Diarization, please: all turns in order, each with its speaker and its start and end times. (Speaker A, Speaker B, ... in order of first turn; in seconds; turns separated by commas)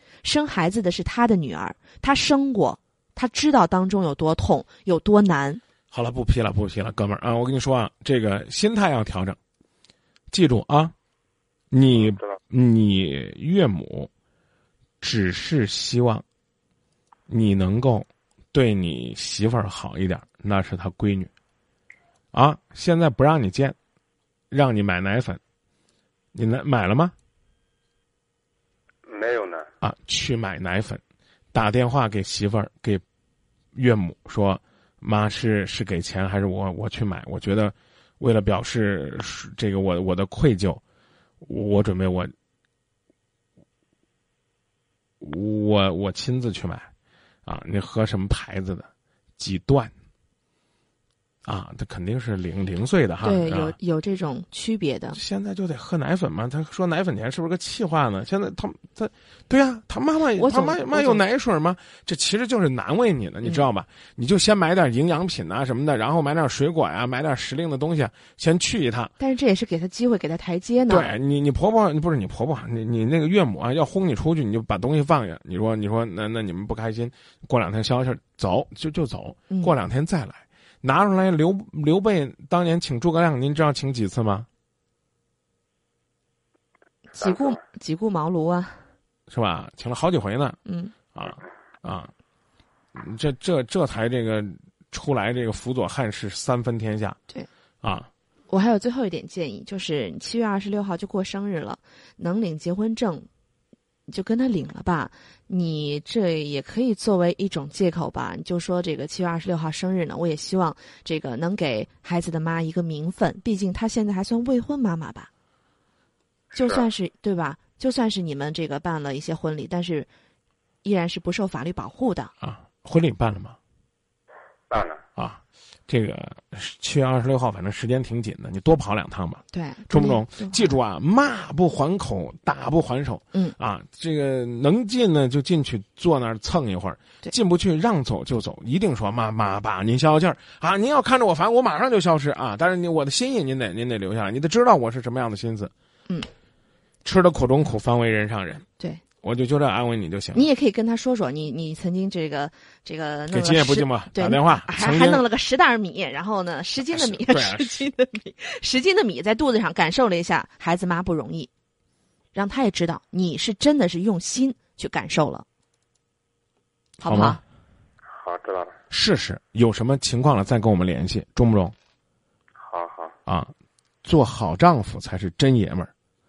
Speaker A: 0.2-5.6, Speaker B: 5.9-9.4, Speaker B: 10.3-10.9, Speaker B: 11.7-14.1, Speaker C: 12.1-12.3, Speaker B: 15.0-16.2, Speaker B: 17.3-21.3, Speaker B: 22.3-23.8, Speaker B: 24.5-25.4, Speaker B: 26.3-27.1, Speaker C: 29.1-29.7, Speaker B: 29.8-31.0, Speaker B: 31.5-33.0, Speaker B: 33.7-40.8, Speaker B: 41.4-42.3, Speaker B: 45.2-46.9, Speaker B: 47.5-48.9, Speaker B: 49.4-49.9, Speaker B: 51.5-53.8, Speaker A: 53.2-55.2, Speaker B: 55.1-69.1, Speaker A: 60.3-61.2, Speaker A: 69.2-71.1, Speaker B: 70.9-84.5, Speaker A: 87.1-88.8, Speaker B: 89.3-90.6, Speaker A: 90.7-90.9, Speaker B: 91.1-92.1, Speaker B: 92.9-97.2, Speaker B: 97.8-98.1, Speaker A: 98.5-103.3, Speaker A: 104.1-115.3, Speaker A: 116.5-120.1, Speaker C: 116.5-116.8, Speaker A: 120.8-122.3, Speaker B: 122.4-123.6, Speaker C: 124.7-125.0, Speaker B: 125.2-145.7, Speaker A: 129.5-130.7, Speaker B: 147.0-148.6, Speaker B: 149.2-150.5, Speaker A: 150.3-161.5, Speaker B: 153.3-155.2, Speaker B: 156.9-157.8, Speaker A: 162.3-165.4, Speaker A: 167.0-167.4, Speaker B: 167.0-167.4, Speaker C: 168.1-168.7, Speaker B: 168.9-171.7, Speaker C: 172.6-173.1, Speaker B: 173.3-173.5, Speaker B: 174.0-175.9